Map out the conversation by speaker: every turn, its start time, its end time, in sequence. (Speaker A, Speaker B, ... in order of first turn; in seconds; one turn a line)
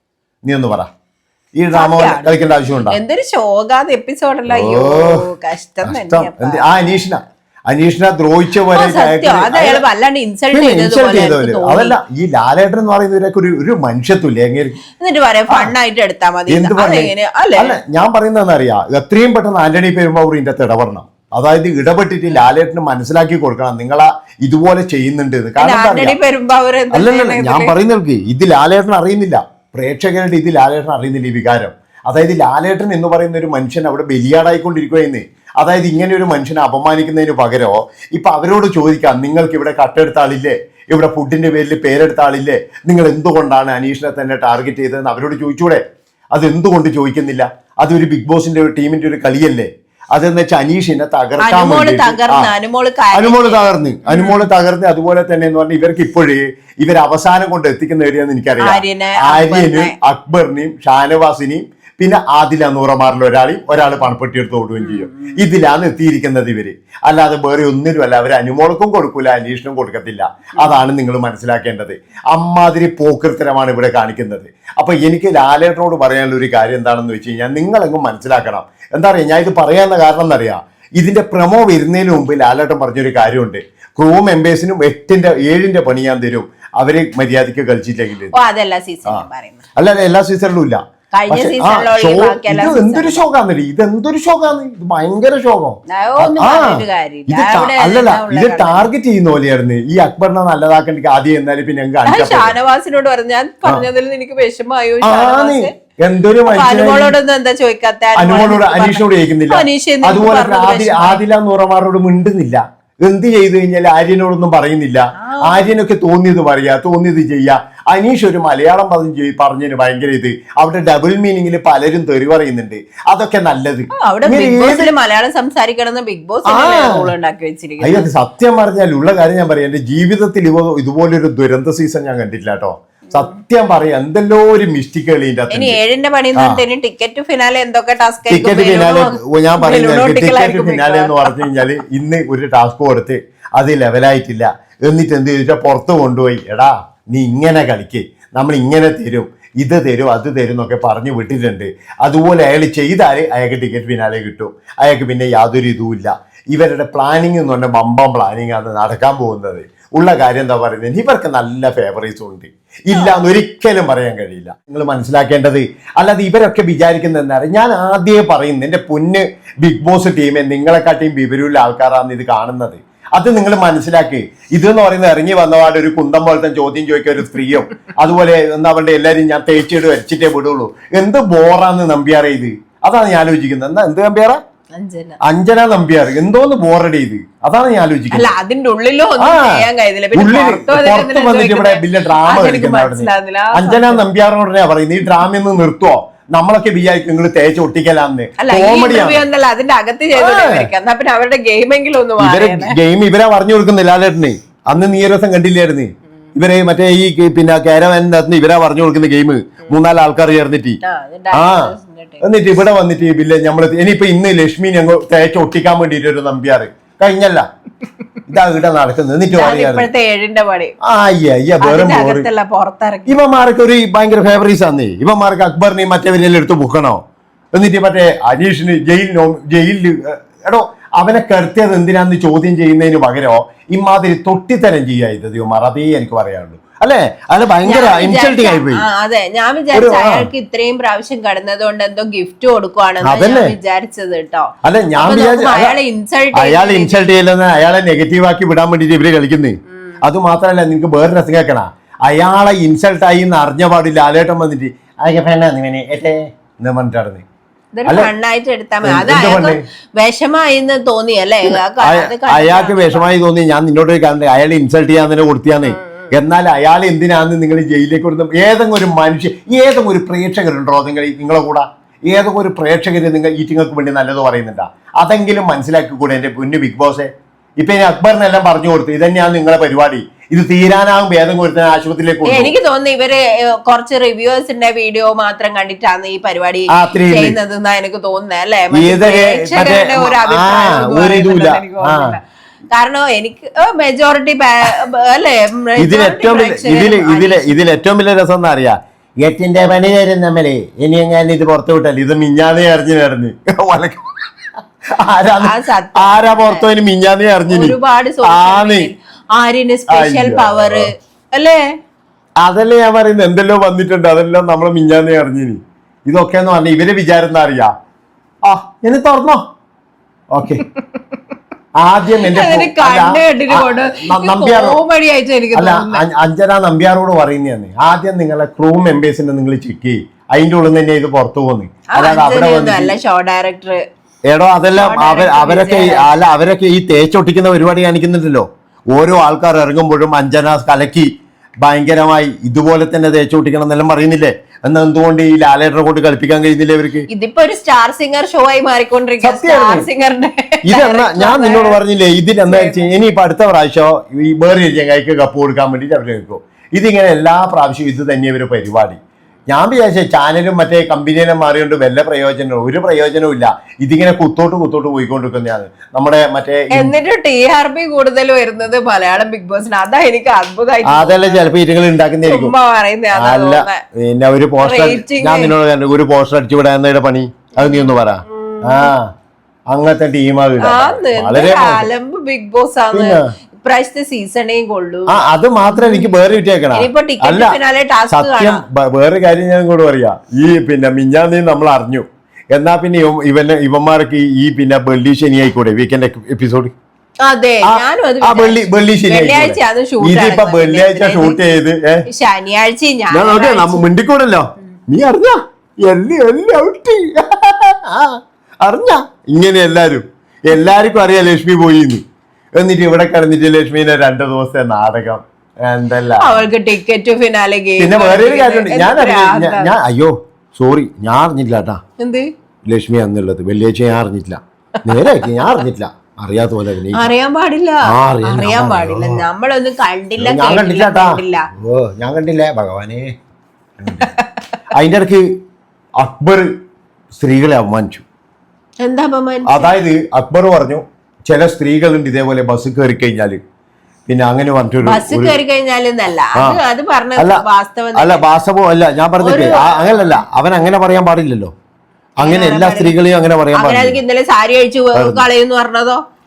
Speaker A: 0.4-0.9
Speaker A: 1.6-3.0
Speaker B: 1.7-6.7
Speaker A: 4.5-5.2
Speaker A: 5.8-9.8
Speaker B: 8.7-12.0
Speaker A: 10.5-14.8
Speaker B: 15.0-17.8
Speaker A: 16.5-26.2
Speaker B: 25.6-27.8
Speaker A: 26.9-45.8
Speaker A: 46.3-52.5
Speaker B: 51.4-54.4
Speaker A: 53.1-88.3
Speaker B: 58.6-59.9
Speaker B: 64.8-65.4
Speaker B: 70.6-70.8
Speaker B: 88.3-89.6
Speaker A: 89.8-102.6
Speaker B: 91.1-93.2
Speaker B: 95.9-98.9
Speaker B: 102.1-105.7
Speaker A: 105.0-107.2
Speaker B: 106.5-111.2
Speaker A: 108.2-124.9
Speaker B: 115.2-115.6
Speaker B: 124.0-128.1
Speaker A: 126.5-127.1
Speaker A: 127.8-135.8
Speaker B: 135.5-141.5
Speaker A: 138.3-184.4
Speaker B: 162.9-163.2
Speaker B: 184.8-185.2
Speaker A: 185.2-188.3
Speaker B: 188.1-194.0
Speaker A: 189.2-199.2
Speaker B: 198.4-202.8
Speaker A: 200.2-200.7
Speaker A: 202.2-210.8
Speaker B: 210.8-212.2
Speaker A: 211.3-217.5
Speaker A: 218.3-219.9
Speaker B: 219.3-220.7
Speaker A: 220.8-222.3
Speaker B: 221.6-223.2
Speaker A: 223.1-227.0
Speaker A: 227.5-238.8
Speaker B: 237.7-247.1
Speaker A: 239.7-240.3
Speaker A: 243.0-243.6
Speaker A: 244.6-245.8
Speaker A: 246.3-257.2
Speaker B: 257.8-263.1
Speaker A: 258.8-259.6
Speaker A: 261.4-282.6
Speaker B: 265.6-266.1
Speaker B: 282.2-292.2
Speaker A: 286.7-287.4
Speaker A: 288.7-292.2
Speaker B: 292.7-297.5
Speaker A: 295.8-304.1
Speaker A: 305.0-308.9
Speaker B: 305.4-306.7
Speaker B: 307.5-311.6
Speaker A: 309.9-310.9
Speaker A: 312.4-317.7
Speaker A: 318.4-319.4
Speaker A: 320.3-320.6
Speaker A: 321.8-324.8
Speaker B: 322.2-326.0
Speaker A: 325.6-332.9
Speaker B: 331.9-333.8
Speaker A: 334.3-341.1
Speaker B: 334.8-336.1
Speaker A: 341.6-347.1
Speaker B: 347.1-351.8
Speaker A: 349.2-349.9
Speaker A: 350.6-366.9
Speaker B: 352.5-352.9
Speaker B: 366.7-371.5
Speaker A: 370.9-372.5
Speaker B: 372.2-373.8
Speaker A: 373.1-379.1
Speaker B: 374.6-375.5
Speaker B: 377.6-378.9
Speaker A: 379.7-381.9
Speaker B: 380.6-385.2
Speaker A: 382.9-383.3
Speaker A: 385.1-387.6
Speaker B: 385.7-386.1
Speaker B: 386.8-388.6
Speaker A: 388.1-396.7
Speaker B: 397.2-401.4
Speaker A: 397.7-402.1
Speaker B: 402.1-403.9
Speaker A: 403.1-412.0
Speaker A: 412.6-416.5
Speaker B: 416.2-419.7
Speaker A: 417.8-421.8
Speaker B: 422.0-422.3
Speaker A: 422.7-427.1
Speaker B: 425.3-425.6
Speaker B: 426.9-431.5
Speaker A: 427.9-429.2
Speaker A: 430.2-433.1
Speaker A: 433.8-434.1
Speaker B: 433.9-434.4
Speaker A: 434.7-435.3
Speaker A: 436.0-436.5
Speaker A: 437.1-438.1
Speaker B: 438.8-439.7
Speaker A: 439.5-443.4
Speaker A: 444.1-445.4
Speaker B: 444.8-448.2
Speaker A: 447.2-447.4
Speaker A: 448.0-451.5
Speaker B: 449.2-450.2
Speaker A: 452.2-454.0
Speaker B: 452.2-452.9
Speaker B: 453.5-456.0
Speaker A: 454.9-455.2